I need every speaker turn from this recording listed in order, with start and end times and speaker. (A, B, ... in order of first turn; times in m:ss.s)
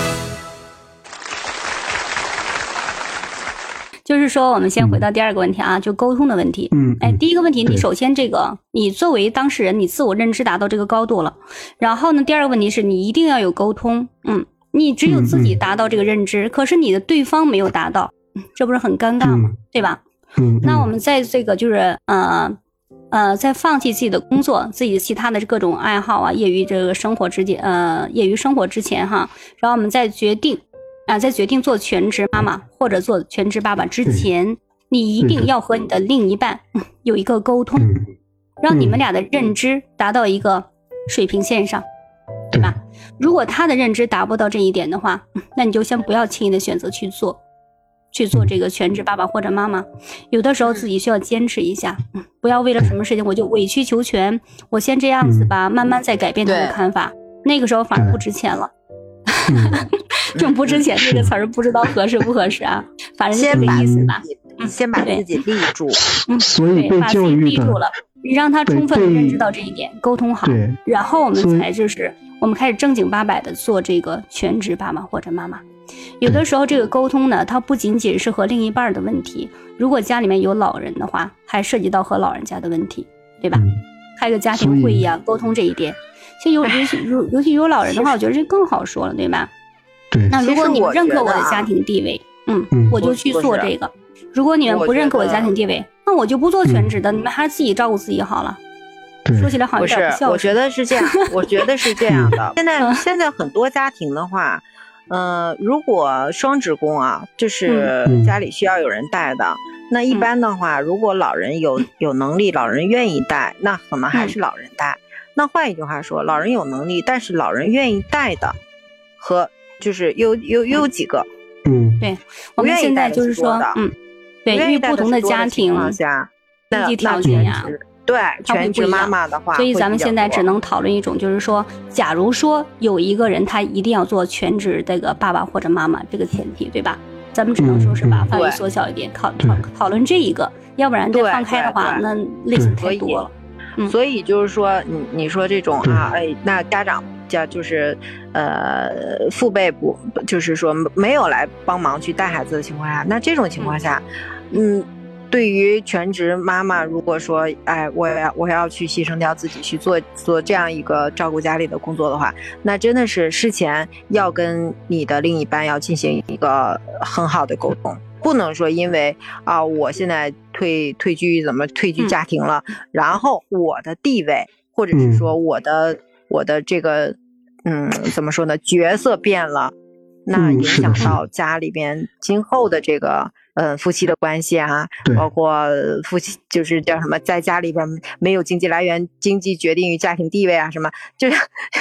0:04.0-0:20.0 A
0:04.8-0:05.0 B
0:06.7-0:07.9 B
0:15.1-0:15.6 B
0:19.2-0:19.6 B
0:20.4-0:20.9 B
0:20.6-0:22.6 A
0:23.1-0:37.9 A
0:35.2-0:35.5 B
0:37.8-0:38.1 B
0:38.6-0:41.8 A
0:38.7-0:39.0 B
0:42.6-0:47.4 A
0:48.1-0:58.7 A
0:55.2-0:55.5 B
0:56.5-0:56.8 C
0:57.9-0:58.2 B
0:59.3-1:05.3 A
0:59.5-0:59.9 B
1:00.4-1:00.9 C
1:01.0-1:01.3 B
1:03.3-1:06.0 C
1:03.5-1:04.1 B
1:05.9-1:07.8 B
1:06.3-1:15.6 A
1:08.7-1:09.4 B
1:10.4-1:10.8 B
1:11.3-1:11.7 B
1:16.2-1:23.7 A
1:23.5-1:23.8 B
1:24.2-1:29.5 A
1:24.5-1:25.1 B
1:26.6-1:27.0 C
1:30.3-1:38.6 A
1:30.3-1:31.7 C
1:32.7-1:33.0 B
1:33.0-1:33.7 C
1:34.7-1:35.5 C
1:36.6-1:36.9 B
1:39.2-1:39.6 B
1:39.4-1:40.6 A
1:39.8-1:58.6 C
1:41.1-1:41.7 A
1:42.1-1:42.4 B
1:47.7-1:47.9 A
1:48.0-1:48.4 B
1:59.2-2:01.3 C
2:01.6-2:02.0 B
2:02.0-2:03.9 A
2:02.6-2:03.8 C
2:04.4-2:06.0 A
2:04.5-2:10.5 C
2:06.7-2:07.7 A
2:07.2-2:07.5 B
2:08.5-2:23.9 A
2:17.6-2:18.3 B
2:18.3-2:18.6 C
2:19.4-2:19.6 B
2:21.1-2:22.0 C
2:22.8-2:23.2 C
2:23.8-2:59.7 C
2:25.8-2:26.1 B
2:54.9-2:55.3 B
3:00.3-3:11.4 C
3:00.3-3:01.2 B